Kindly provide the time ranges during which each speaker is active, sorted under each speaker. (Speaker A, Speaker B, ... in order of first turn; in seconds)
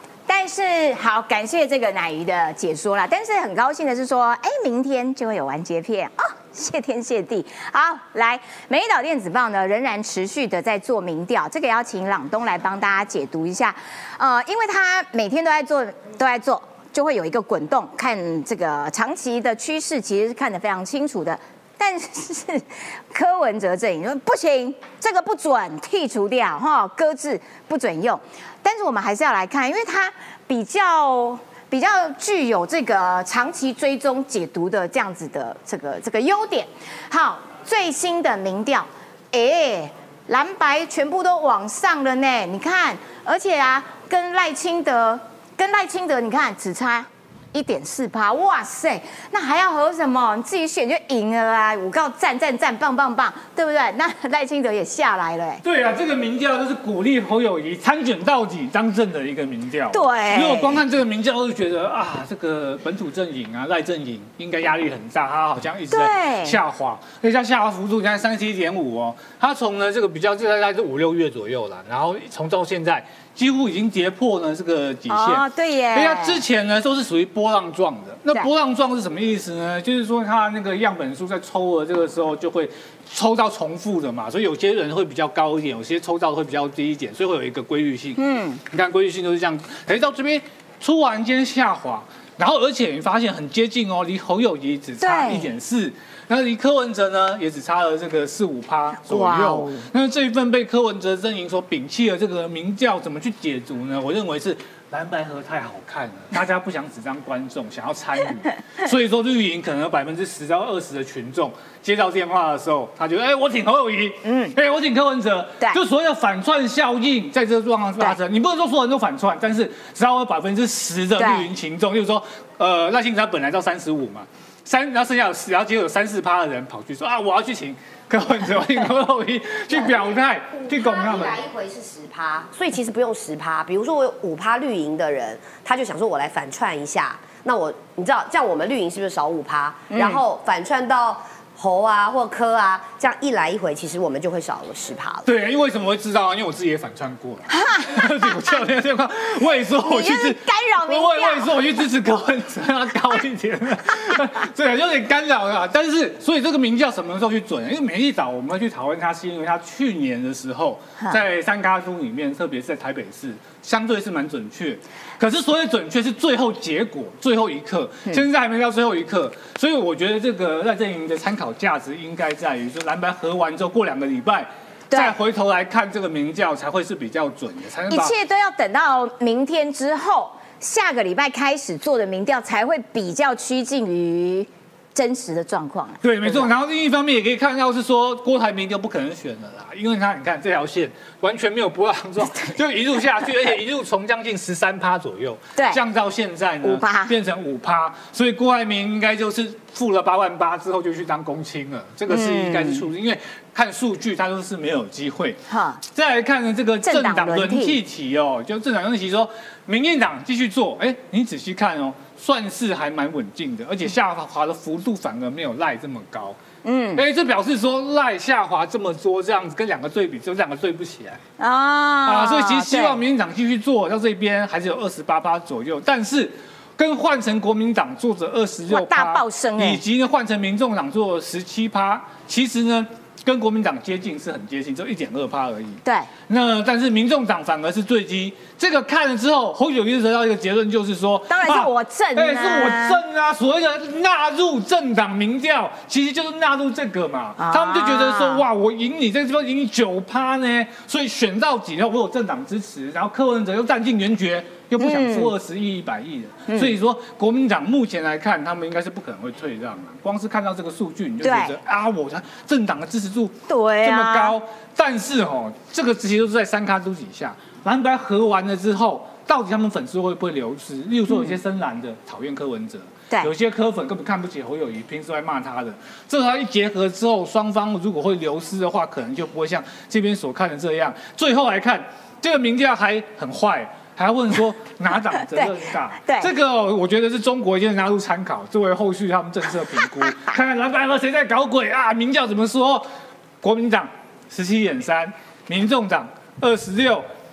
Speaker A: 0.3-55.6, 59.9-60.8, 65.9-66.6, 75.1-76.4, 88.2-88.6, 95.0-95.5, 99.1-99.9, 114.2-114.5, 121.2-121.5, 139.9-140.2, 147.5-148.2, 149.8-151.5, 174.9-175.2, 177.9-186.5, 195.6-195.8, 196.6-197.1, 202.1-202.8, 205.5-205.8, 206.8-207.8, 216.6-217.0, 221.4-223.0, 228.7-229.8, 235.8-236.1, 241.3-243.0, 247.4-248.4, 254.8-255.3, 256.5-256.7, 261.2-261.6, 263.5-264.4, 271.1-271.4, 285.3-286.3
Speaker B: 55.6-131.4, 145.2-178.1, 186.0-205.4, 205.9-216.4, 216.9-221.2, 222.1-292.9, 293.4-297.1
Speaker C: 129.7-145.3